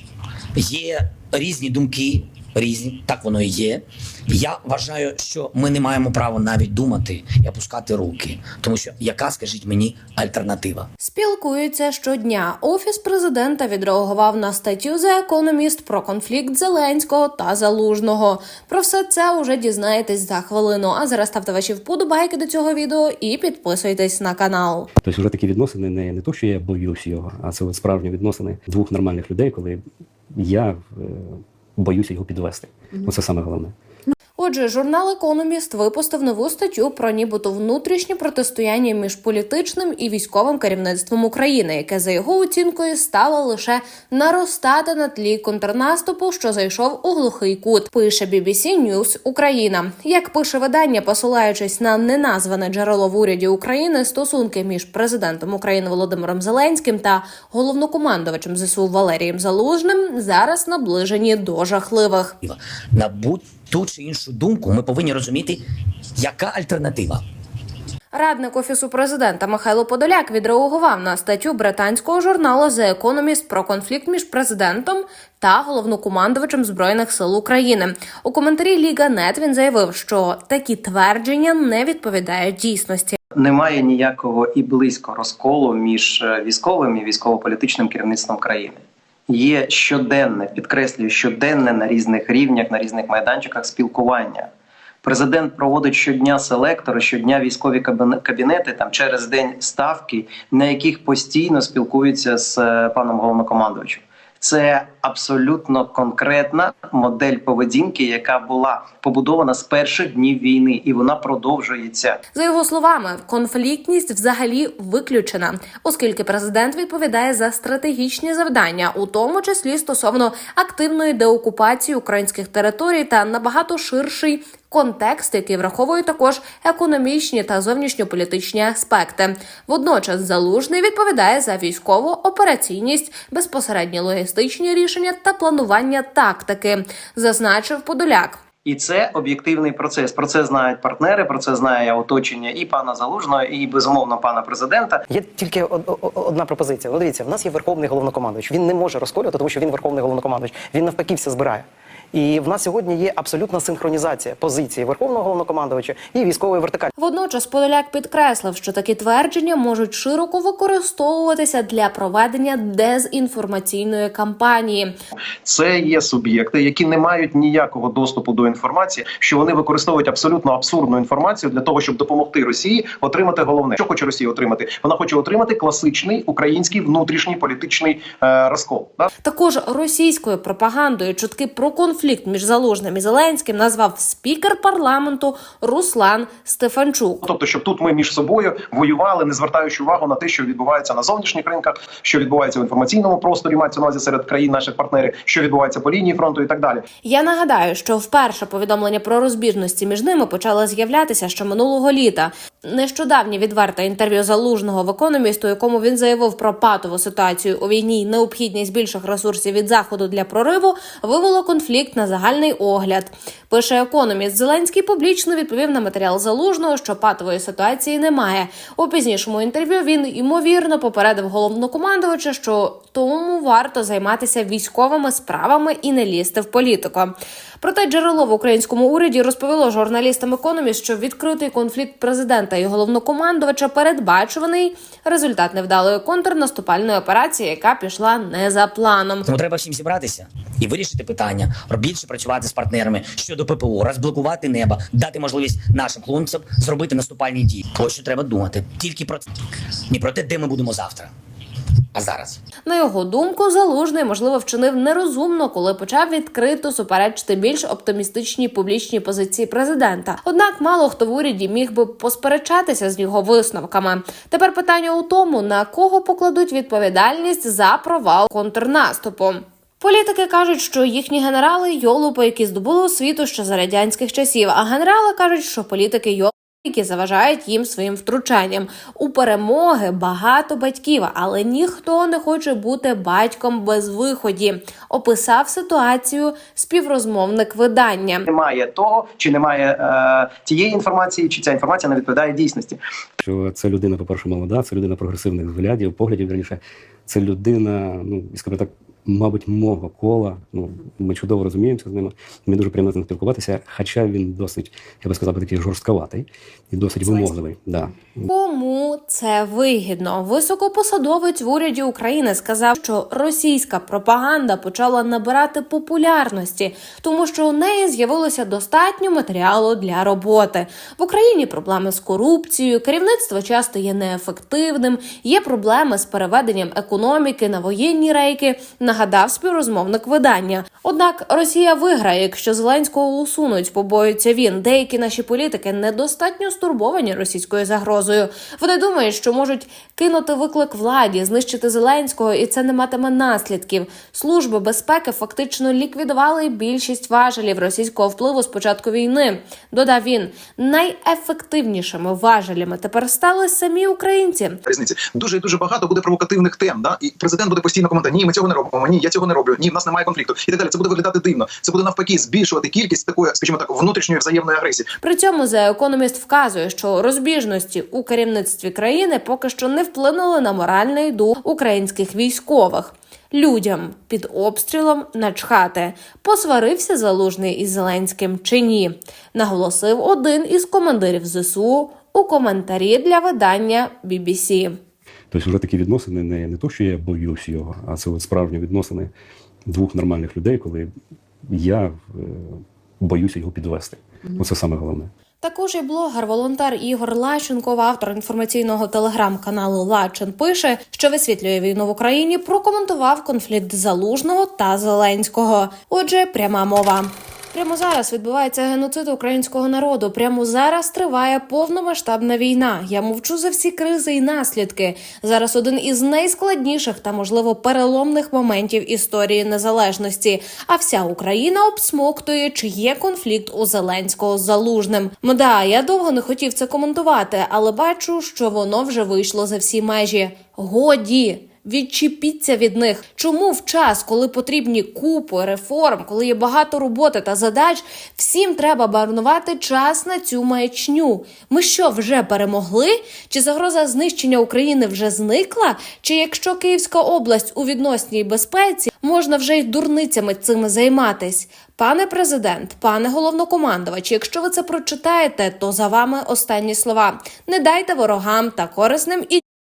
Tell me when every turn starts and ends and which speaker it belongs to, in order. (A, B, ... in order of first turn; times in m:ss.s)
0:00.6-0:10.9 A
0:11.0-0:24.9 B
0:25.0-0:29.8 C
0:30.3-0:33.7 C
0:34.4-1:02.4 B
1:02.4-1:05.6 A
1:06.2-1:07.2 A
1:08.1-1:23.2 B
1:23.3-1:34.5 D
1:35.0-1:52.2 D
1:52.3-2:18.4 B
2:18.6-2:25.0 D
2:25.1-2:36.9 E
2:37.0-2:44.9 B
2:45.4-2:59.1 F
2:59.2-3:07.2 B
3:07.2-3:16.8 F
3:17.0-3:59.3 B
3:59.2-4:09.2 A
4:09.9-4:11.1 A
4:11.9-4:12.4 A
4:12.6-4:48.2 B
4:48.2-4:52.8 D
4:53.2-5:08.2 C
5:08.3-5:54.6 B
5:54.8-6:04.8 G
6:05.0-6:24.8 B
6:25.3-6:29.1 C
6:29.7-6:30.9 C
6:31.5-6:35.1 C
6:35.4-7:39.4 B